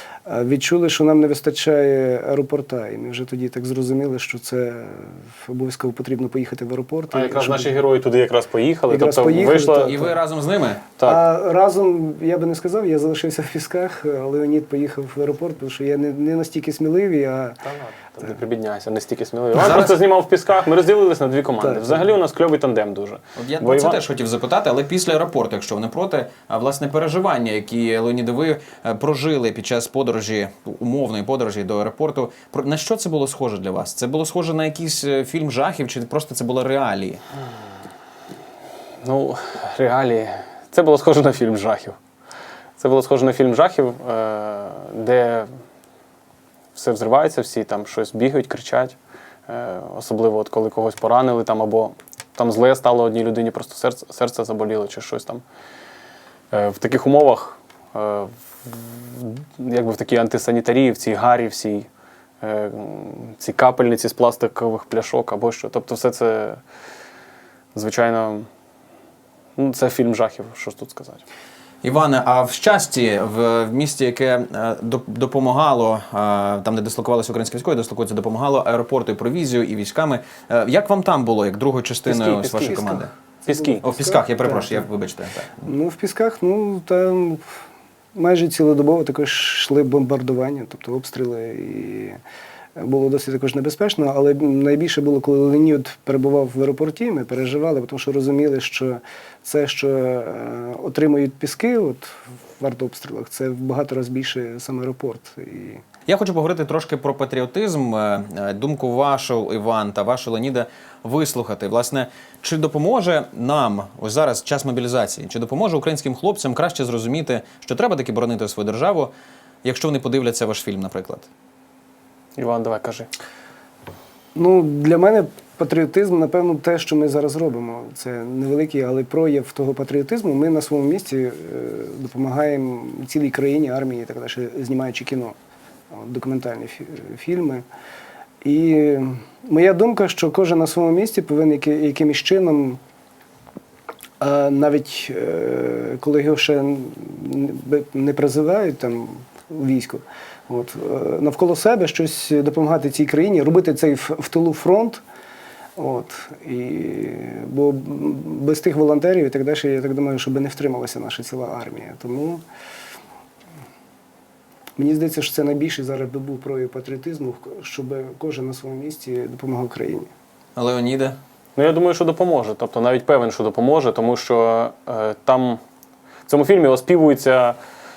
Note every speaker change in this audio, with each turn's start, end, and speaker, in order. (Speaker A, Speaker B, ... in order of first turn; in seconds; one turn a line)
Speaker A: 0.3-7.9
Speaker B: 7.1-10.0
Speaker A: 8.9-10.1
Speaker C: 9.9-10.9
Speaker A: 11.0-17.6
Speaker B: 17.6-24.0
Speaker C: 19.5-20.0
Speaker A: 21.6-22.1
Speaker C: 23.4-37.2
Speaker B: 39.0-42.0
Speaker B: 42.8-45.5
Speaker B: 46.8-49.0
Speaker B: 49.5-55.4
Speaker B: 56.5-61.9
Speaker B: 62.4-66.6
Speaker B: 67.8-68.5
Speaker B: 69.6-71.2
Speaker C: 71.8-83.1
Speaker B: 82.1-84.0
Speaker A: 82.7-84.8
Speaker C: 83.8-85.7
Speaker A: 85.7-87.4
Speaker A: 88.2-92.2
Speaker A: 92.8-105.8
Speaker C: 106.1-119.1
Speaker C: 119.6-121.3
Speaker B: 122.4-123.1
Speaker A: 124.3-135.4
Speaker A: 135.9-137.7
Speaker A: 138.4-142.8
Speaker A: 144.2-155.0
Speaker A: 155.8-162.4
Speaker A: 164.8-170.1
Speaker C: 170.6-171.2
Speaker B: 171.6-175.6
Speaker B: 176.3-177.6